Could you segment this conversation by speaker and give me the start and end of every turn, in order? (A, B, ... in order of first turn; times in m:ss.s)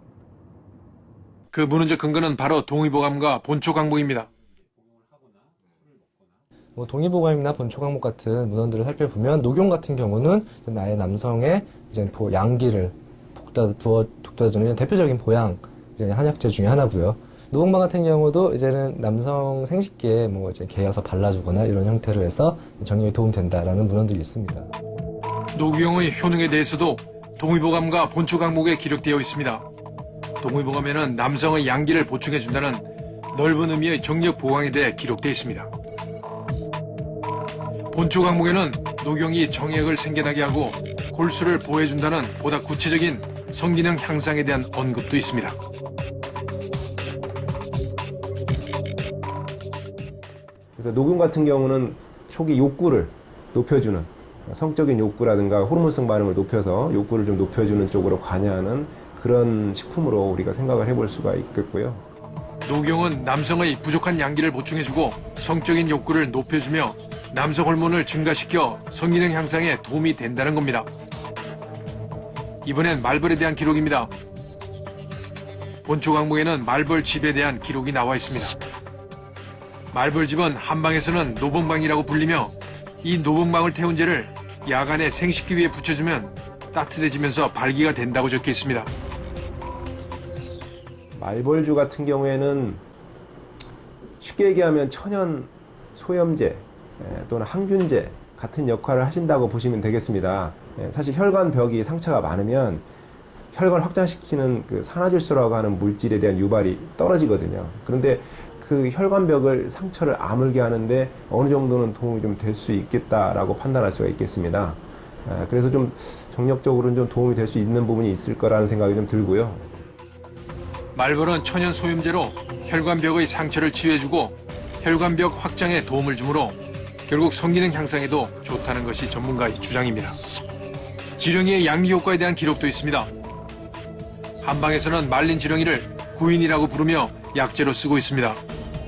0:01.5-0:04.3 A
0:06.8-0:24.7 B
0:25.5-0:29.6 A
0:30.4-0:35.7 A
0:37.9-0:45.6 A
0:50.8-1:02.0 C
1:02.6-1:10.9 A
1:12.6-1:14.1 A
1:15.8-1:18.6 A
1:19.9-1:28.9 A
1:31.2-1:32.7 C
1:34.2-1:42.8 C
1:43.5-1:59.6 C
2:00.9-2:10.2 A
2:11.2-2:13.1 A
2:14.4-2:18.4 A